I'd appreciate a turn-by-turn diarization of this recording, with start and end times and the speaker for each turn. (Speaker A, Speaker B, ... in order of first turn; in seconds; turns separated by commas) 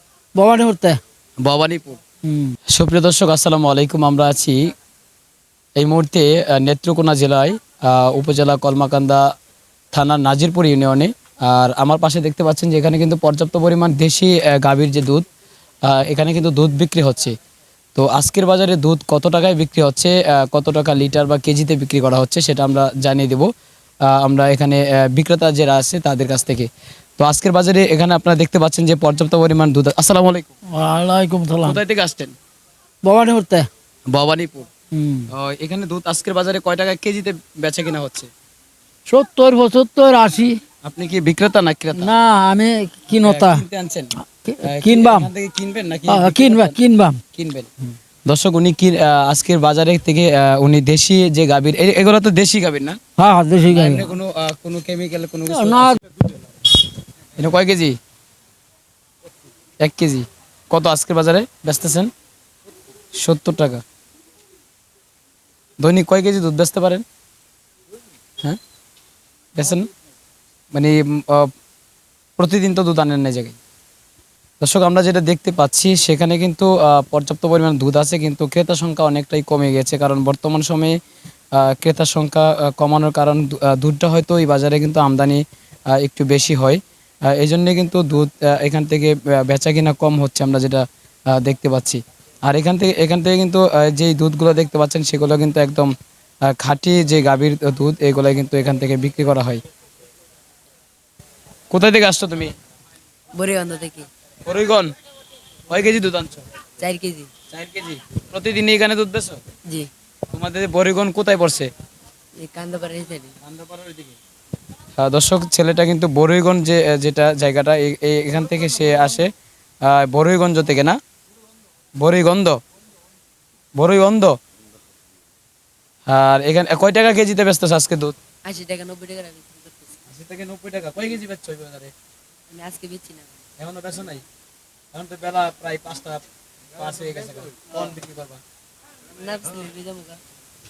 Speaker A: 0.3-1.0, Speaker B: 1.4-2.0, Speaker A: 2.2-2.5, Speaker B: 2.7-4.6, Speaker B: 5.8-9.2, Speaker B: 9.9-15.2, Speaker B: 15.8-17.3, Speaker B: 17.9-23.5, Speaker B: 24.0-30.5, Speaker A: 30.7-31.8, Speaker B: 31.6-32.3, Speaker A: 33.0-33.7, Speaker B: 34.1-34.7, Speaker A: 34.9-35.3, Speaker B: 35.3-38.3, Speaker A: 39.1-40.6, Speaker B: 40.8-42.1, Speaker A: 41.9-43.6, Speaker B: 43.2-46.8, Speaker A: 44.2-45.3, Speaker A: 46.1-47.2, Speaker B: 47.3-47.7, Speaker B: 48.2-53.0, Speaker A: 53.2-54.1, Speaker B: 53.7-56.0, Speaker A: 55.5-56.0, Speaker B: 57.4-57.9, Speaker B: 59.8-62.1, Speaker B: 63.1-63.8, Speaker B: 65.8-67.0, Speaker B: 69.5-69.9, Speaker B: 70.7-71.5, Speaker B: 72.4-73.6, Speaker B: 74.6-81.0, Speaker B: 81.5-95.9, Speaker B: 96.5-99.6, Speaker B: 101.7-102.5, Speaker C: 103.3-104.1, Speaker B: 104.5-104.9, Speaker B: 105.7-106.4, Speaker C: 106.8-107.3, Speaker B: 107.5-109.4, Speaker B: 110.3-111.7, Speaker C: 112.4-113.3, Speaker B: 113.4-114.2, Speaker B: 115.0-119.3, Speaker B: 119.8-121.0, Speaker B: 122.0-122.6, Speaker B: 123.8-124.3, Speaker B: 126.1-128.2, Speaker C: 128.4-130.0, Speaker B: 130.1-131.9, Speaker C: 132.5-133.4, Speaker B: 133.6-134.2, Speaker B: 134.9-136.2, Speaker B: 136.8-138.4, Speaker C: 139.2-140.2